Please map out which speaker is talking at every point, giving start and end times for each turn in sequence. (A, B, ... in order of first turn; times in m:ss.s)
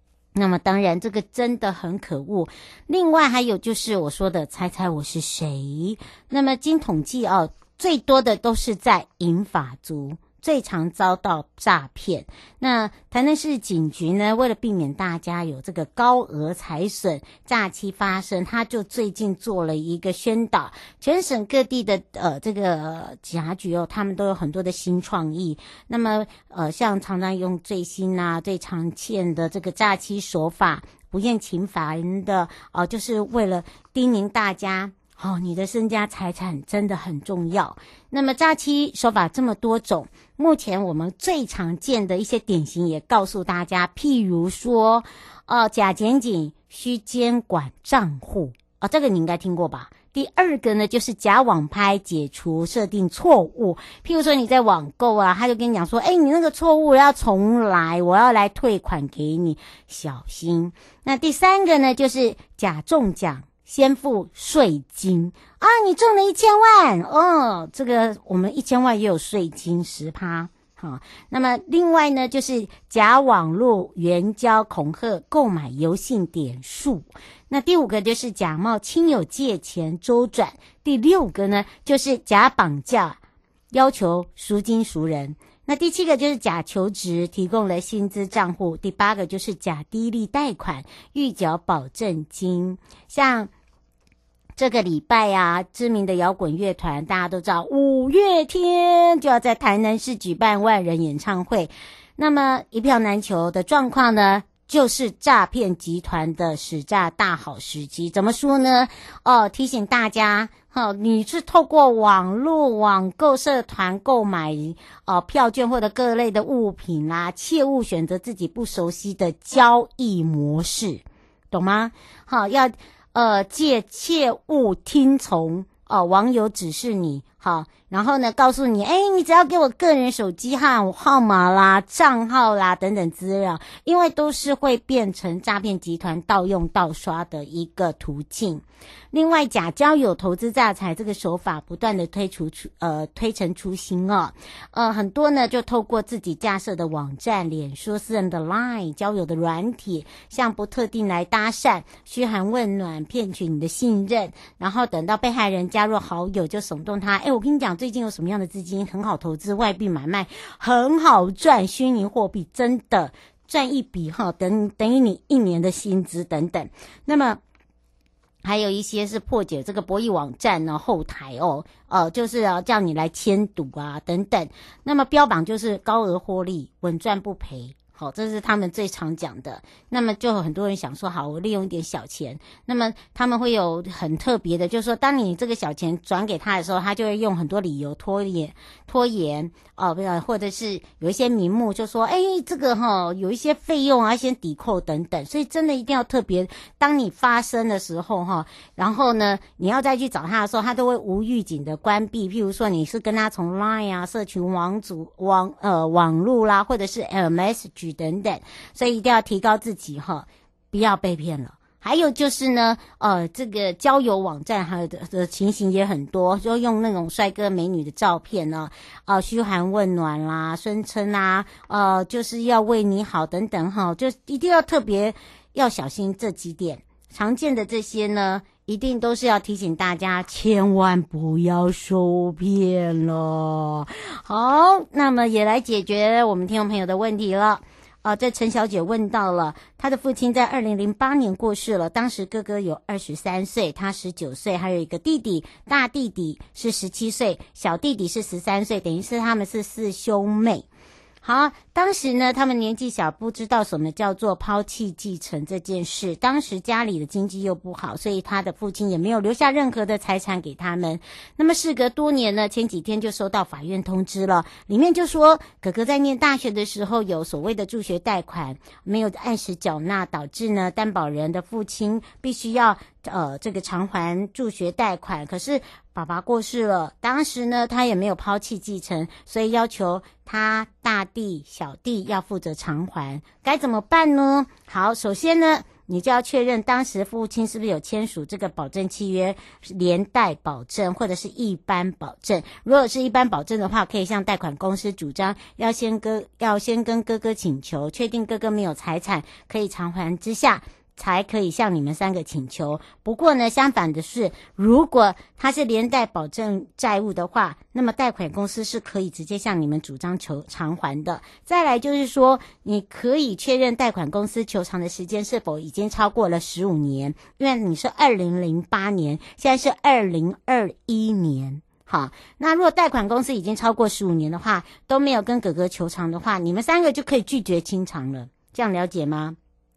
0:00.4-1:23.2 A
1:23.7-1:33.5 A
1:34.6-2:47.4 A
2:48.4-4:10.7 A
4:11.2-5:29.4 A